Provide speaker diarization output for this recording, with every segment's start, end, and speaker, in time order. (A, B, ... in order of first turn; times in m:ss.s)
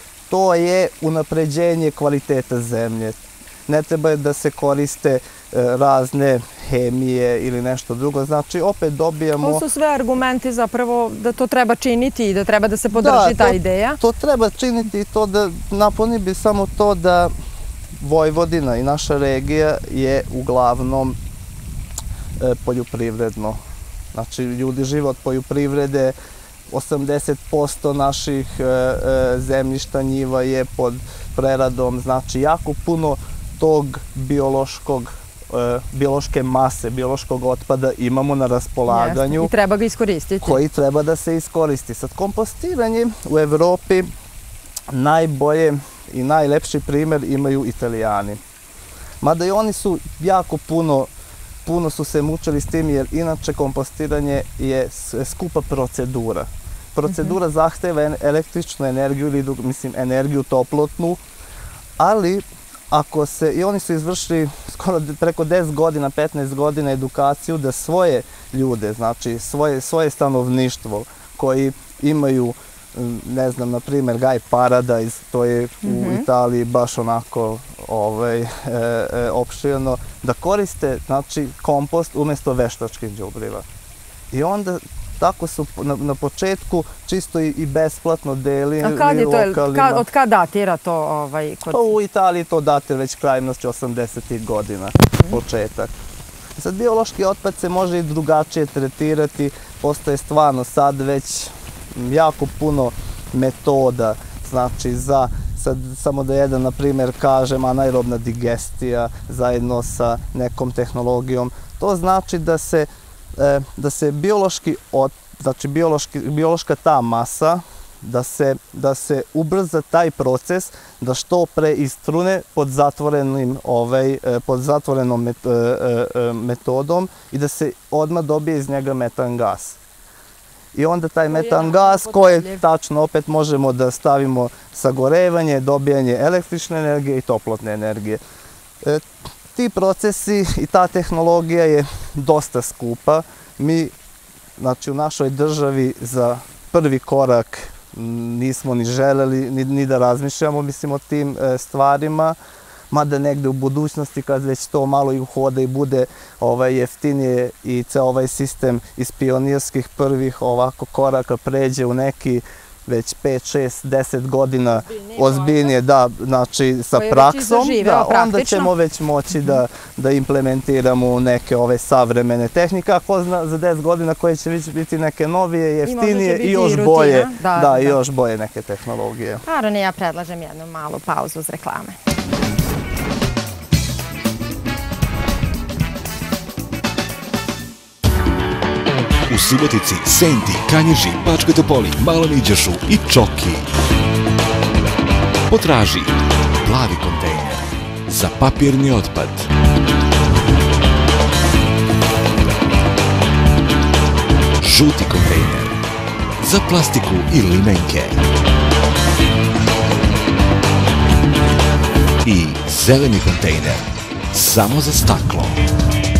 0:00.3-0:09.6 A
0:09.4-0:14.0 B
0:12.9-0:17.3 A
0:18.0-0:21.2 A
0:22.4-0:23.6 A
0:24.1-0:26.1 A
0:26.7-0:39.5 A
0:38.9-0:40.6 B
0:40.4-0:44.1 A
0:44.9-0:48.4 A
0:49.2-0:51.1 A
0:51.6-1:01.2 A
0:57.1-0:57.3 B
1:02.0-1:23.6 A
1:15.8-1:16.2 B
1:24.3-1:30.0 A
1:28.8-1:31.9 B
1:31.7-1:35.9 A
1:36.6-2:09.8 A
2:10.7-2:18.2 A
2:11.3-2:12.6 B
2:18.8-2:23.9 A
2:24.6-2:32.4 A
2:32.9-2:59.4 A
2:44.8-2:45.7 B
2:46.9-2:48.7 B
2:55.8-2:58.0 B
2:59.4-3:02.0 B
3:09.3-3:13.7 C
3:15.5-3:19.5 C
3:24.6-3:25.8 C
3:26.4-3:28.2 C
3:32.2-3:35.6 C